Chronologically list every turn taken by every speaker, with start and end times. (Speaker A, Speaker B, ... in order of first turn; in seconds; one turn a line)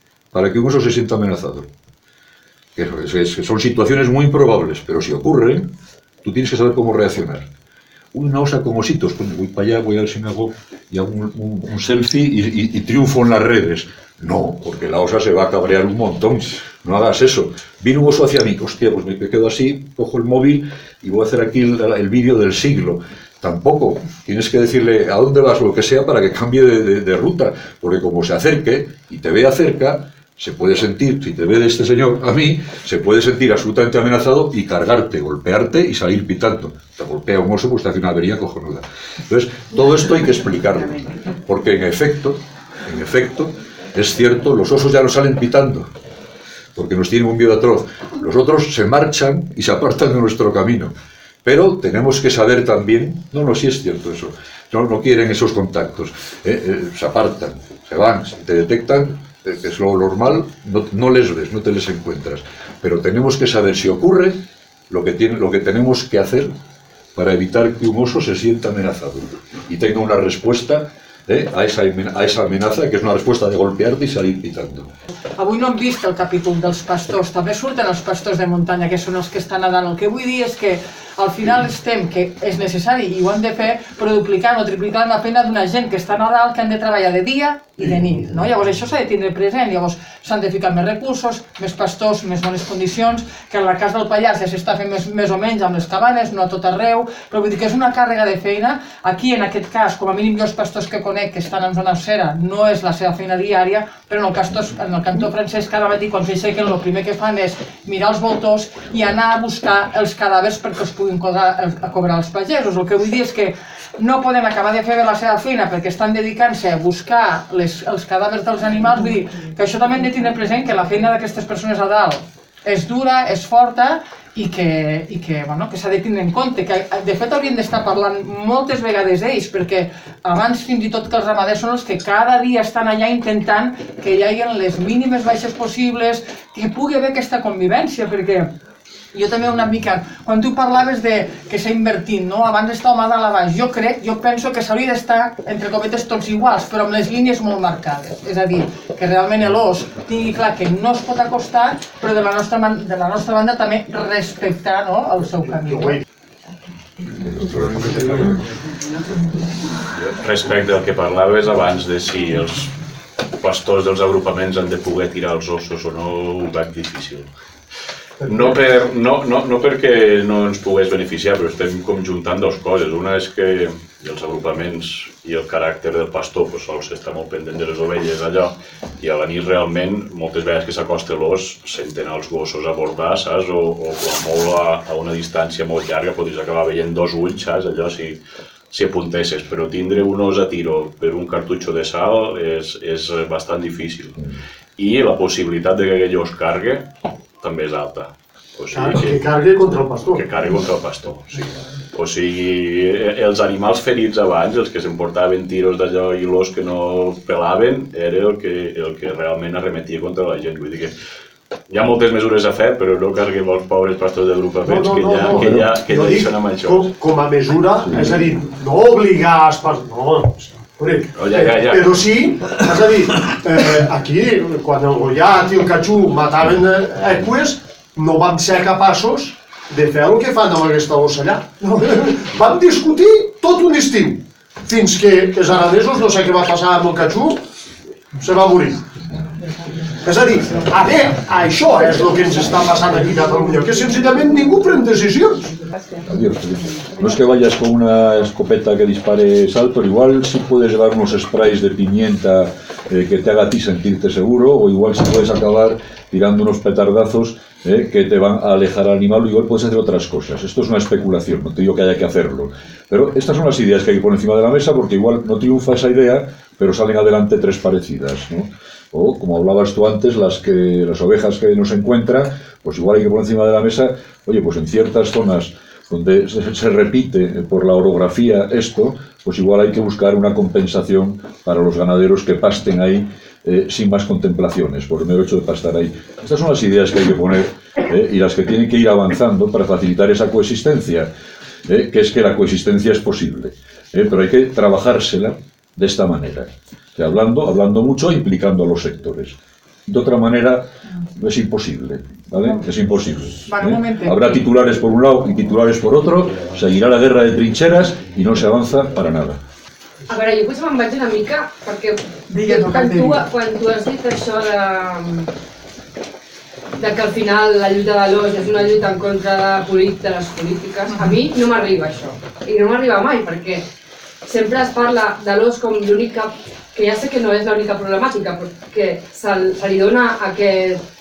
Speaker A: 0.3-1.7
Speaker A: 2.7-5.7
Speaker A: 6.2-7.5
Speaker A: 8.1-45.9
Speaker A: 46.8-50.9
Speaker A: 51.4-66.5
Speaker A: 67.1-74.9
Speaker B: 75.4-138.5
Speaker C: 87.8-88.3
Speaker B: 139.1-156.0
Speaker C: 155.7-156.0
Speaker A: 157.2-158.4
Speaker D: 160.2-162.7
Speaker D: 163.4-167.3
Speaker D: 168.2-188.2
Speaker D: 188.7-194.2
Speaker D: 194.8-196.9
Speaker D: 197.4-199.3
Speaker C: 198.7-200.3
Speaker D: 200.1-210.9
Speaker D: 211.7-216.9
Speaker C: 214.6-237.4
Speaker A: 215.3-215.7
Speaker D: 221.1-222.0
Speaker C: 238.1-238.8
Speaker C: 240.0-245.7
Speaker A: 246.0-291.1
Speaker A: 291.7-309.4
Speaker B: 303.4-304.4
Speaker E: 310.1-315.3
Speaker B: 312.3-313.2
Speaker E: 316.8-323.6
Speaker B: 320.9-321.1
Speaker E: 324.2-330.8